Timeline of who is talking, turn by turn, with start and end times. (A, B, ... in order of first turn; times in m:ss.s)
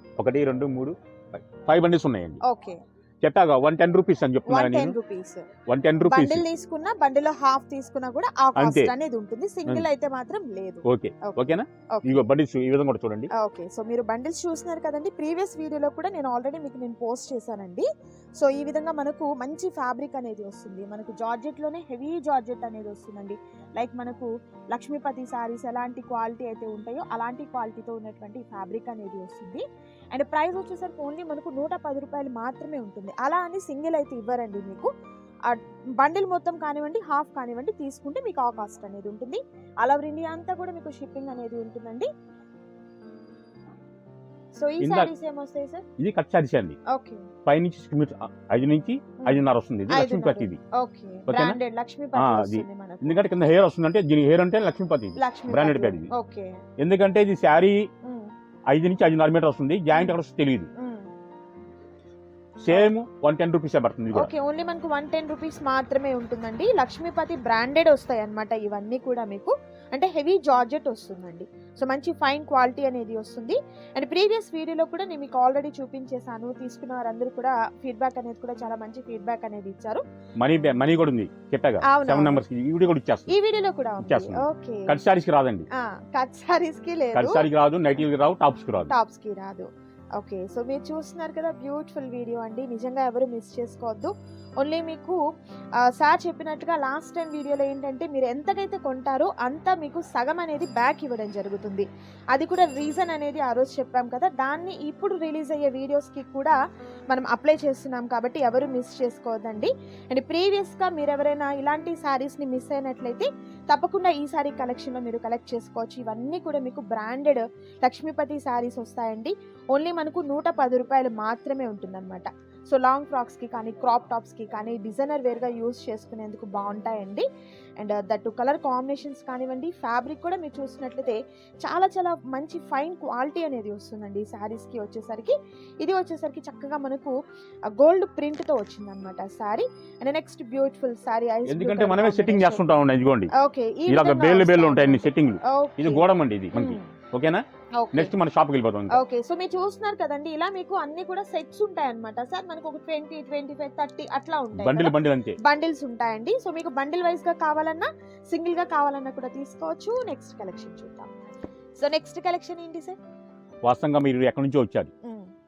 0:00.2-0:02.4 A
0:02.4-0:02.8 B
0:03.2-0:05.0 A
0:04.5-0:05.5 B
0:05.7-0:06.4 A
0:06.0-0:12.2 B
0:08.6-0:08.9 A
0:10.9-0:13.3 A
0:13.3-0:17.9 B
0:18.4-0:34.9 B
0:35.5-0:42.1 B
0:44.5-0:45.8 B
0:44.8-0:45.1 A
0:46.0-0:46.8 A
0:46.9-0:47.3 B
0:47.5-0:50.6 A
0:49.2-0:53.2 B
0:51.3-0:51.6 A
0:52.2-0:56.1 A
0:55.2-0:56.6 B
0:56.8-0:57.9 A
0:58.0-0:58.3 B
0:58.7-1:00.7 A
1:00.8-1:01.1 B
1:02.6-1:04.3 A
1:04.1-1:20.0 B
1:20.4-1:23.3 A
1:21.8-1:22.4 B
1:23.3-1:25.0 B
1:24.0-1:25.7 A
1:25.8-1:27.4 B
1:27.1-1:28.9 A
1:28.9-1:35.2 B
1:35.8-1:46.6 B
1:47.1-2:07.3 B
2:07.8-2:17.1 B
2:17.7-2:22.6 B
2:21.5-2:23.3 A
2:23.3-2:26.9 B
2:23.9-2:29.0 A
2:27.8-2:28.1 B
2:28.9-2:41.1 B
2:34.6-2:35.4 A
2:41.8-2:43.0 B
2:43.6-2:44.9 A
2:45.0-2:45.3 B